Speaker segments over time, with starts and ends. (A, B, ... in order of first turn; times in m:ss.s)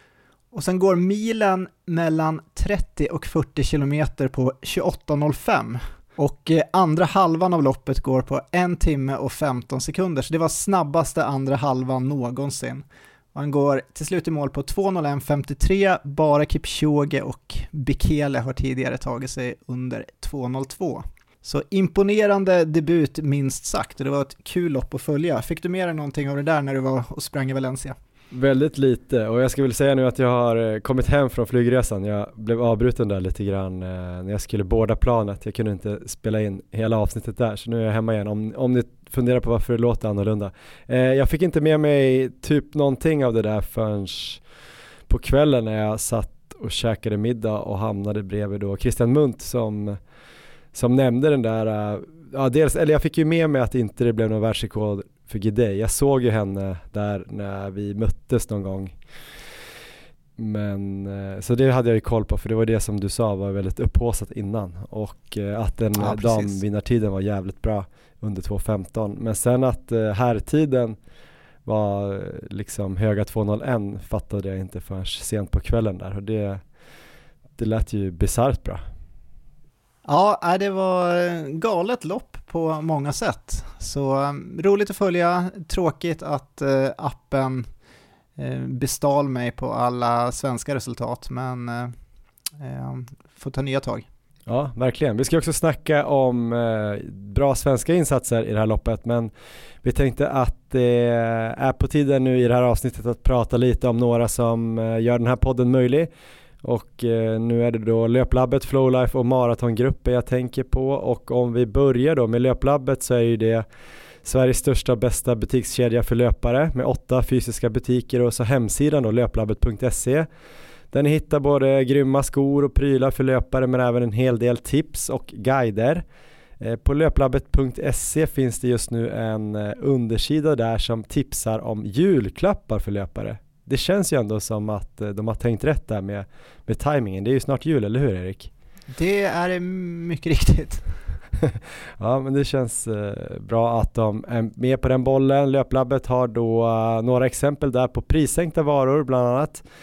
0:00.5-0:28.0 A
0:28.3-0:44.4 B
0:45.1-0:50.0 B
0:50.7-0:58.9 B
1:00.4-1:11.0 B
1:06.0-1:06.6 A
1:11.6-1:16.6 B
1:17.6-1:18.8 B
1:20.1-1:27.7 A
1:28.4-1:32.0 A
1:32.6-1:34.0 A
1:34.5-1:39.3 B
1:39.8-1:46.1 B
1:46.6-1:53.6 B
1:54.2-2:00.3 B
2:00.9-2:06.0 B
2:06.6-2:18.5 B
2:18.9-2:20.8 A
2:22.0-2:29.6 B